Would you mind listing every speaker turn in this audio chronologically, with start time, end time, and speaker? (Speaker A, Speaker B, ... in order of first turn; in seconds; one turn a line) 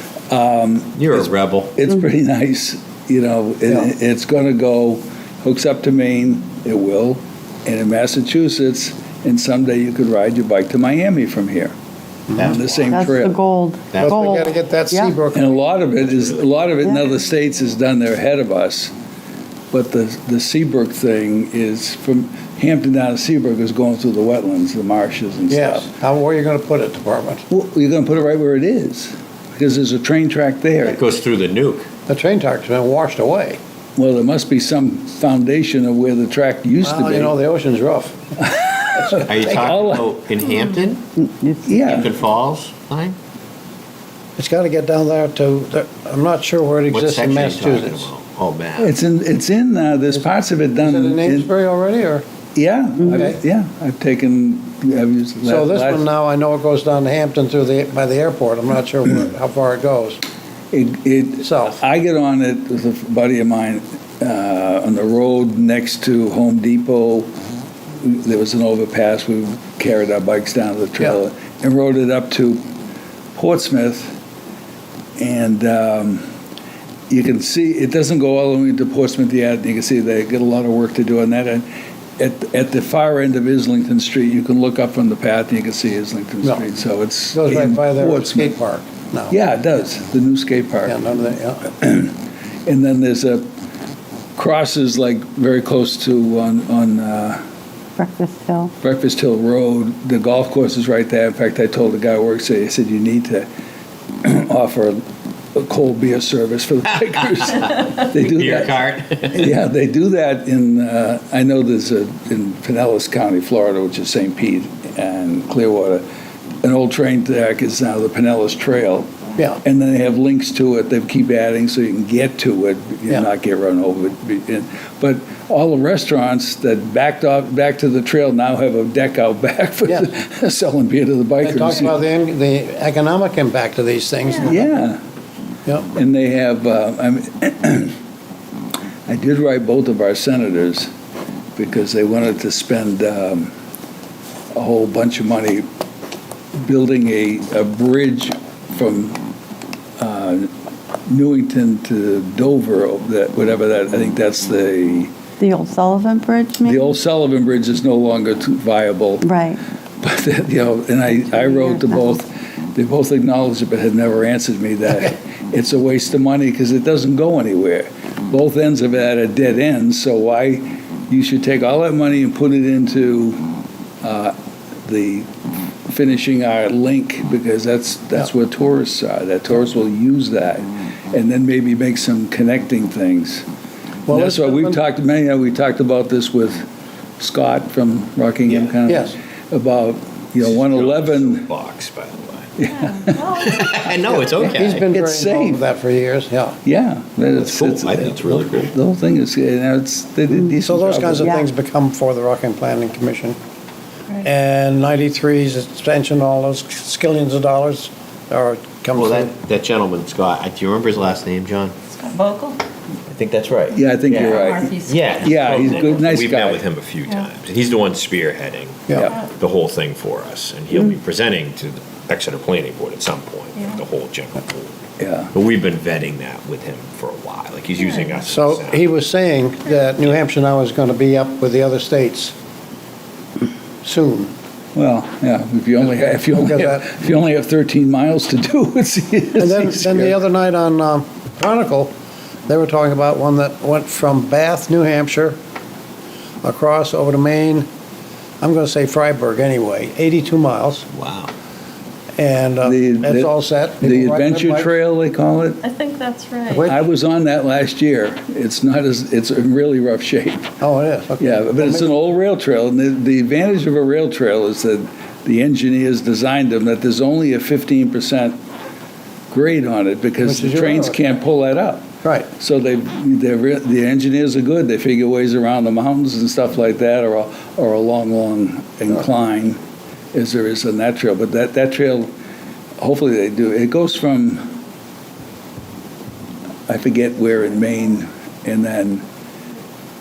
Speaker A: 0.3-11.7
Speaker B: 0.9-1.8
Speaker B: 12.3-12.9
Speaker A: 12.4-13.4
Speaker C: 12.9-15.2
Speaker B: 13.9-14.5
Speaker D: 13.9-16.0
Speaker A: 15.3-18.9
Speaker B: 16.1-16.7
Speaker A: 19.7-25.9
Speaker D: 25.5-27.4
Speaker A: 27.5-31.0
Speaker B: 30.9-31.9
Speaker D: 32.1-33.6
Speaker A: 34.0-37.3
Speaker D: 36.8-38.2
Speaker A: 38.4-40.1
Speaker B: 39.2-41.1
Speaker C: 41.2-41.6
Speaker A: 41.6-42.1
Speaker B: 41.7-43.1
Speaker D: 44.4-48.1
Speaker B: 46.9-48.9
Speaker A: 48.8-51.5
Speaker D: 50.8-52.2
Speaker A: 52.5-56.0
Speaker D: 53.1-53.4
Speaker D: 55.4-60.2
Speaker A: 60.7-67.3
Speaker D: 61.4-61.8
Speaker A: 68.0-72.6
Speaker A: 73.3-74.2
Speaker A: 75.2-76.2
Speaker A: 77.1-81.7
Speaker A: 82.2-88.6
Speaker D: 87.3-89.3
Speaker A: 89.3-91.0
Speaker D: 90.8-91.7
Speaker A: 91.8-93.4
Speaker A: 94.3-97.4
Speaker C: 98.0-98.7
Speaker A: 98.8-103.5
Speaker A: 104.2-105.0
Speaker A: 105.5-116.0
Speaker B: 108.1-109.5
Speaker A: 116.6-119.1
Speaker D: 119.4-119.6
Speaker A: 119.6-132.0
Speaker D: 131.4-134.7
Speaker A: 134.4-135.0
Speaker A: 135.9-137.9
Speaker A: 139.1-140.9
Speaker A: 141.6-143.5
Speaker A: 144.5-145.7
Speaker A: 146.5-149.2
Speaker A: 150.0-150.5
Speaker A: 151.1-155.1
Speaker C: 155.4-156.8
Speaker A: 156.6-159.3
Speaker C: 159.2-159.6
Speaker A: 160.0-173.4
Speaker C: 161.2-162.2
Speaker A: 174.0-175.3
Speaker A: 175.9-183.4
Speaker D: 184.1-184.8
Speaker A: 184.1-186.6
Speaker A: 187.2-191.5
Speaker D: 188.9-189.2
Speaker B: 190.4-192.5
Speaker A: 192.6-193.3
Speaker E: 192.8-193.8
Speaker B: 193.3-194.9
Speaker D: 194.1-196.6
Speaker A: 194.8-195.6
Speaker A: 196.6-201.4
Speaker B: 197.3-198.7
Speaker D: 200.6-203.3
Speaker D: 204.2-209.3
Speaker B: 208.9-211.8
Speaker E: 211.9-212.6
Speaker B: 213.1-224.8
Speaker A: 213.7-216.6
Speaker E: 214.2-216.0
Speaker D: 218.9-219.1
Speaker A: 225.0-225.3
Speaker B: 225.3-228.8
Speaker D: 228.3-232.3
Speaker D: 233.8-234.3
Speaker A: 234.7-240.2
Speaker D: 236.3-236.9
Speaker D: 239.4-241.9
Speaker D: 242.5-245.3
Speaker D: 246.4-247.7
Speaker D: 248.4-250.9
Speaker B: 250.9-251.3
Speaker D: 252.2-254.7
Speaker A: 252.6-255.6
Speaker E: 255.6-256.7
Speaker D: 256.5-256.8
Speaker A: 256.6-260.5
Speaker D: 260.6-261.9
Speaker A: 261.2-268.4
Speaker A: 269.3-279.6
Speaker D: 270.2-271.0
Speaker D: 272.0-272.3
Speaker A: 280.1-282.1
Speaker A: 282.8-284.6
Speaker A: 286.7-289.0